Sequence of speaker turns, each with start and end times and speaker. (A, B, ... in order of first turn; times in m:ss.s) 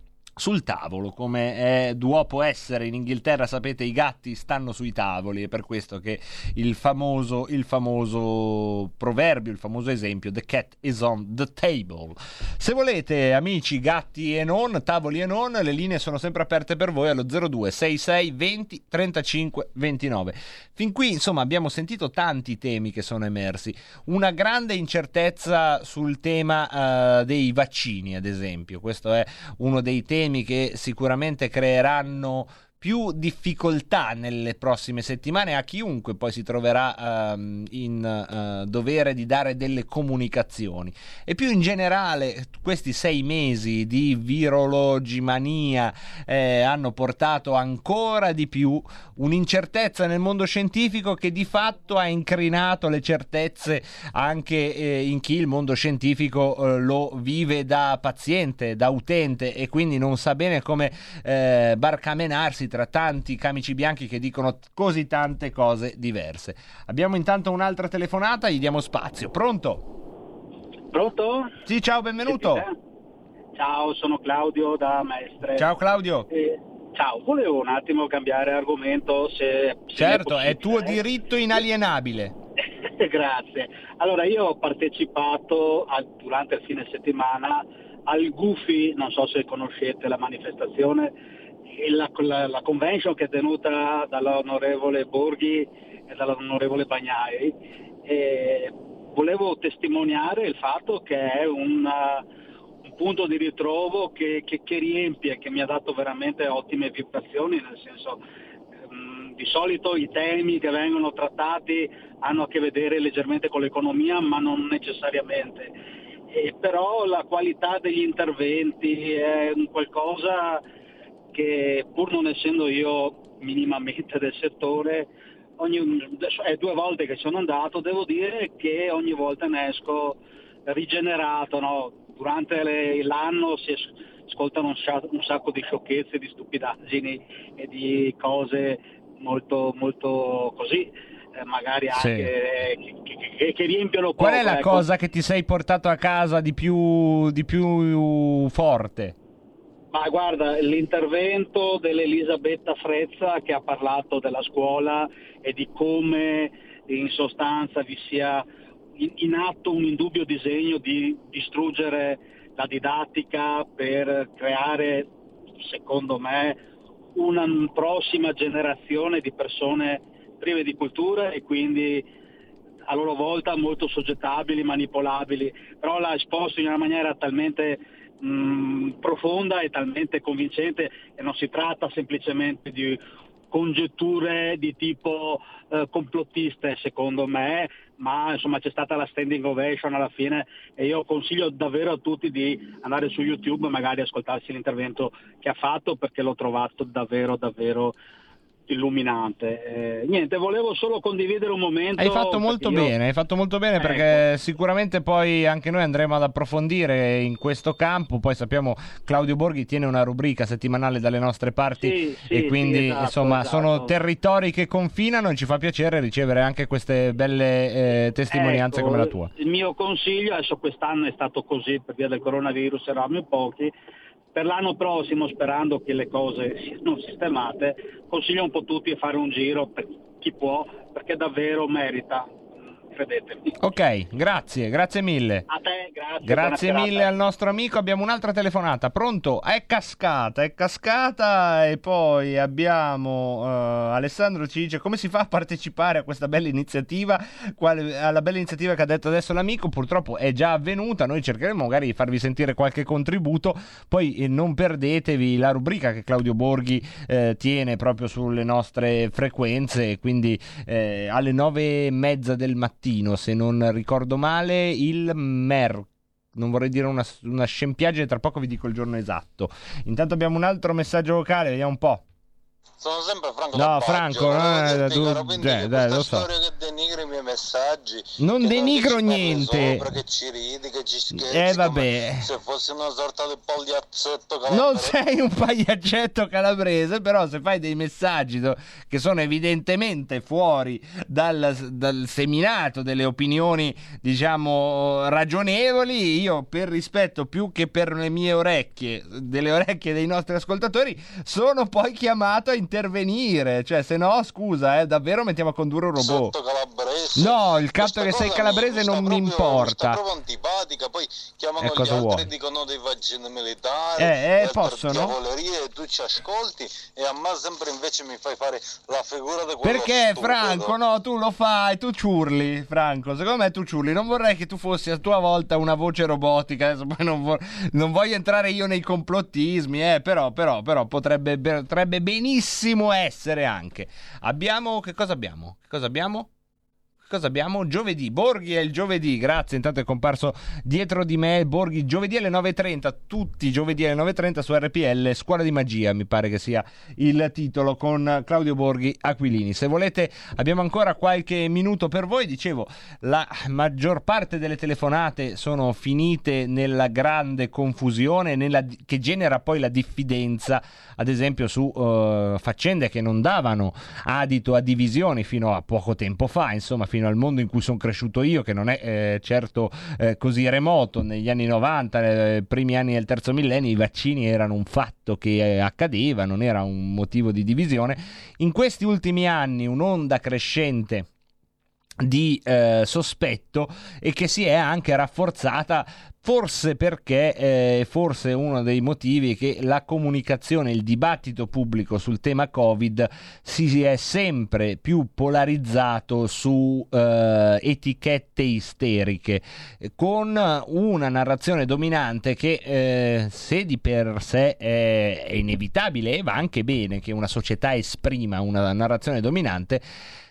0:00.4-1:09.8 A
1:10.9-1:11.5 B
1:11.6-1:12.6 A
1:12.2-1:12.7 B
1:13.5-1:15.7 B
1:15.6-1:16.3 A
1:16.3-1:21.0 B
1:19.9-1:22.3 A
1:22.8-1:31.1 B
1:31.7-1:42.2 B
1:42.9-1:48.2 B
1:48.9-1:55.7 B
1:56.3-2:00.6 B
2:01.3-2:24.8 B
2:21.9-2:22.3 A
2:24.2-2:29.2 A
2:29.9-2:38.4 B
2:39.0-2:45.1 B
2:45.6-2:46.6 B
2:47.2-2:52.0 B
2:52.9-3:03.0 B
3:03.5-3:17.9 B
3:18.7-3:22.9 B
3:22.0-3:39.3 A
3:23.8-3:24.2 B
3:31.8-3:34.0 B
3:38.3-3:43.7 B
3:44.3-3:53.6 B
3:53.6-3:55.4 A
3:55.5-3:57.1 B
3:56.2-4:32.0 A
4:32.8-4:44.9 C
4:33.5-4:36.3 A
4:38.2-4:39.9 A
4:41.2-4:42.2 A
4:44.5-5:06.3 A
5:06.0-5:20.8 C
5:07.2-5:10.0 A
5:11.6-5:12.2 A
5:14.0-5:15.1 A
5:19.6-5:36.3 A
5:37.0-6:21.1 A
6:22.0-6:49.8 A